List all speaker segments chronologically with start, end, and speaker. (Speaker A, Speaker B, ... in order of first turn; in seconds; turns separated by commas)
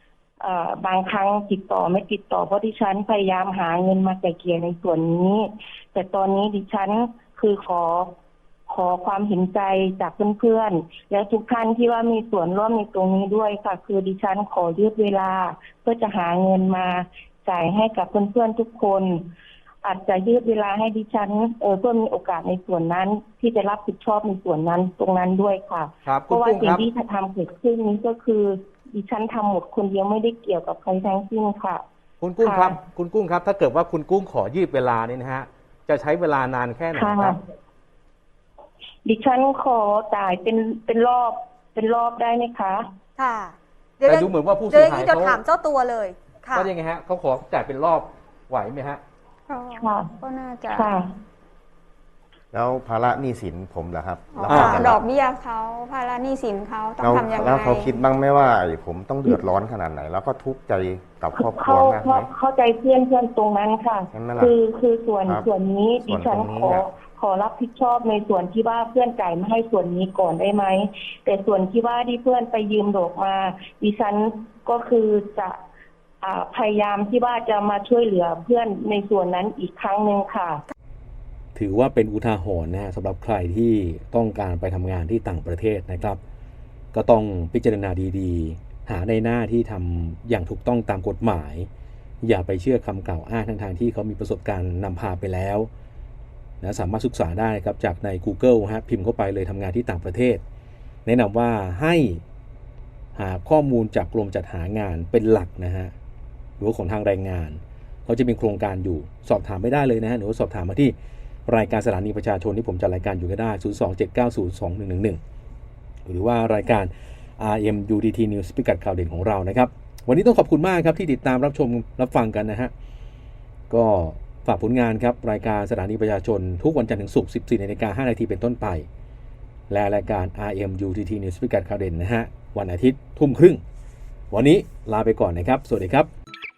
Speaker A: 0.4-8.2, Speaker A: 8.7-19.3, Speaker A: 19.8-31.8, Speaker B: 26.1-26.8, Speaker B: 32.2-37.4, Speaker A: 32.4-32.8, Speaker A: 36.9-37.4, Speaker A: 39.0-42.9, Speaker C: 43.2-46.7, Speaker B: 44.1-45.4, Speaker B: 46.5-49.0, Speaker D: 49.5-50.9, Speaker A: 49.8-50.1, Speaker A: 50.7-51.1, Speaker E: 52.5-55.0, Speaker D: 54.3-57.9, Speaker B: 54.5-54.8, Speaker C: 54.5-54.9, Speaker E: 57.0-62.3, Speaker A: 61.4-75.6, Speaker E: 64.1-64.6, Speaker E: 66.0-66.9, Speaker A: 76.2-80.6, Speaker B: 81.5-86.2, Speaker B: 86.9-91.7, Speaker B: 92.2-95.7, Speaker B: 96.6-100.4, Speaker B: 101.1-102.2, Speaker B: 103.2-105.9, Speaker B: 106.6-111.0, Speaker B: 111.5-115.2, Speaker B: 116.1-122.7, Speaker B: 123.7-128.9, Speaker B: 129.7-133.6, Speaker B: 134.3-136.1